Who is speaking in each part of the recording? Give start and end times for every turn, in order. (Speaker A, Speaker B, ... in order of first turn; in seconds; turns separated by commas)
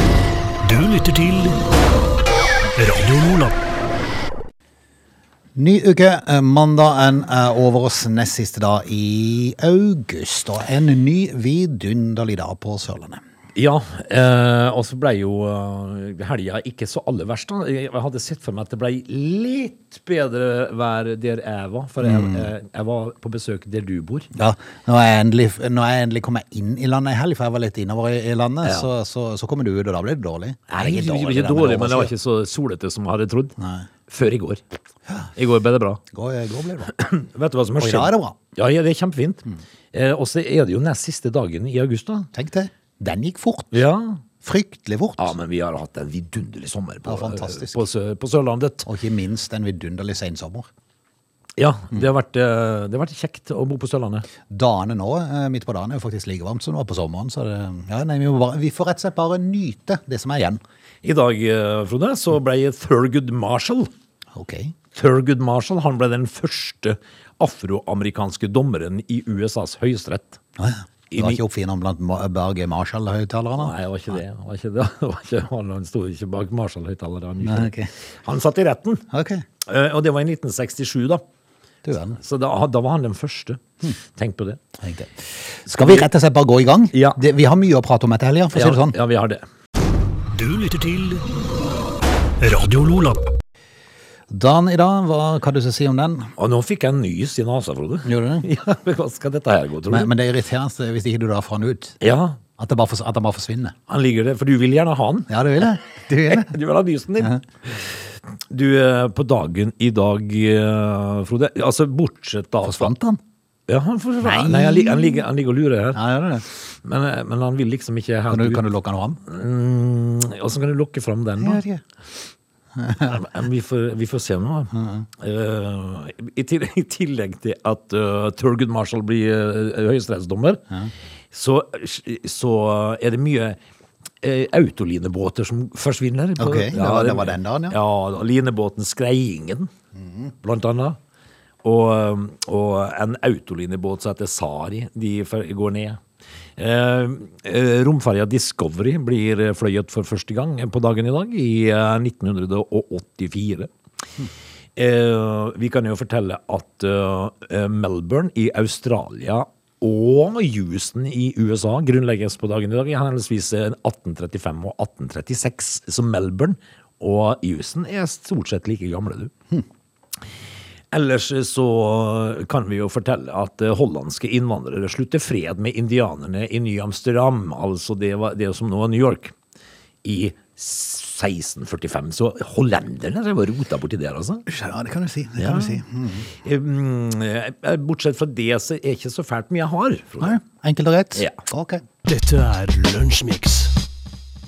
Speaker A: 0.6-1.6, Speaker A: 2.8-3.5, Speaker B: 5.5-13.2, Speaker C: 13.5-24.3, Speaker B: 22.0-22.5, Speaker B: 24.3-32.1, Speaker C: 30.7-33.5, Speaker B: 33.6-33.9, Speaker C: 34.1-34.6, Speaker C: 35.4-36.0, Speaker B: 36.1-37.0, Speaker C: 36.9-42.3, Speaker B: 37.8-38.4, Speaker B: 42.3-43.8, Speaker C: 43.7-44.2, Speaker B: 44.4-45.3, Speaker C: 45.2-48.9, Speaker B: 47.0-47.8, Speaker B: 48.9-50.7, Speaker C: 51.6-54.3, Speaker B: 54.5-60.6, Speaker C: 61.0-63.9, Speaker B: 64.3-64.7, Speaker C: 64.9-70.4, Speaker B: 70.6-73.7, Speaker C: 71.1-71.4, Speaker C: 73.6-77.7, Speaker B: 77.4-77.9, Speaker C: 78.2-79.0, Speaker B: 79.1-79.4, Speaker C: 79.6-81.2, Speaker B: 81.8-82.2, Speaker C: 82.2-84.6, Speaker B: 84.8-89.0, Speaker C: 85.7-86.1, Speaker C: 86.9-87.2, Speaker C: 88.5-89.5, Speaker A: 90.3-91.2, Speaker A: 92.4-93.2, Speaker B: 94.3-96.3, Speaker C: 96.4-100.1, Speaker B: 98.0-98.5, Speaker B: 99.9-102.0, Speaker C: 102.0-102.4, Speaker B: 102.6-103.7, Speaker C: 103.9-105.6, Speaker B: 105.3-106.5, Speaker C: 106.2-112.9, Speaker B: 112.6-113.2, Speaker C: 113.7-118.6, Speaker B: 114.2-115.2, Speaker B: 115.9-116.4, Speaker B: 118.3-119.2, Speaker C: 119.2-121.6, Speaker B: 121.4-121.8, Speaker B: 122.8-123.2, Speaker C: 123.0-130.6, Speaker B: 124.7-125.1, Speaker C: 131.3-133.6, Speaker C: 134.2-139.7, Speaker B: 136.4-137.8, Speaker B: 140.0-140.3, Speaker C: 140.4-141.0, Speaker C: 141.6-146.0, Speaker C: 146.6-153.7, Speaker C: 154.8-169.3, Speaker C: 170.9-179.3, Speaker C: 180.0-184.5, Speaker B: 184.5-186.3, Speaker C: 185.4-190.4, Speaker B: 190.2-191.8, Speaker A: 192.1-193.7